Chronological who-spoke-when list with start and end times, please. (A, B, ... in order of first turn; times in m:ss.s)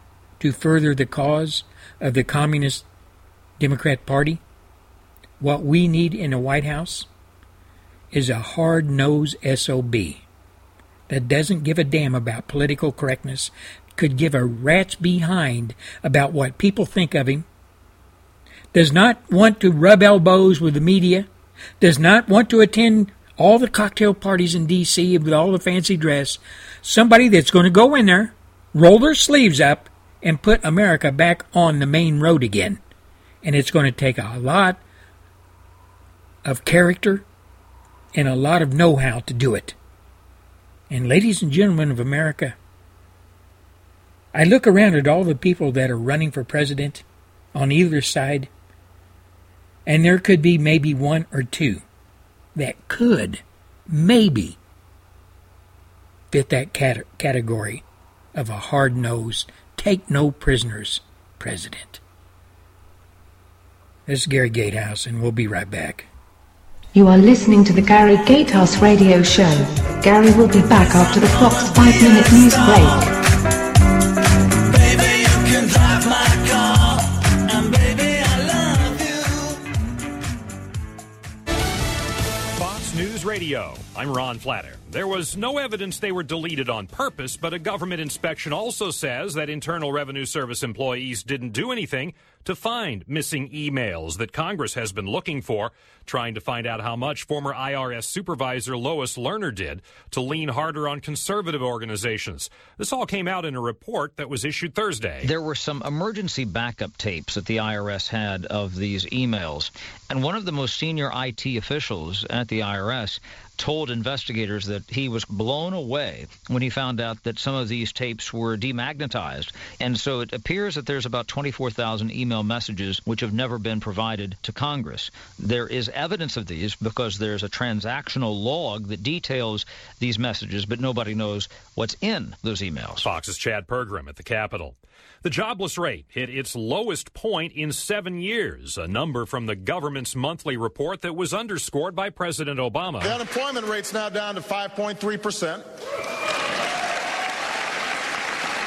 0:00.4-0:02.8 A
0:03.6-0:04.4 A
0:05.4-0:07.1 A
0:08.1-0:10.2 A
0:11.1-0:17.4 A
0:18.7-0:21.3 A
0:21.8-0:32.8 A
0:33.4-0:34.8 A
0:36.4-0:37.2 A
0:38.1-0:39.8 A
0:40.9-0:42.6 A
0:44.3-0:48.5 A
0:49.9-0:51.8 A
0:52.6-0:54.6 A
0:56.3-0:57.8 A
0:58.4-1:02.0 A
1:04.1-1:06.1 A
1:06.9-1:13.1 B
1:22.6-1:45.3 C
1:45.2-2:13.1 D
2:13.0-2:23.2 C
2:23.1-2:25.6 E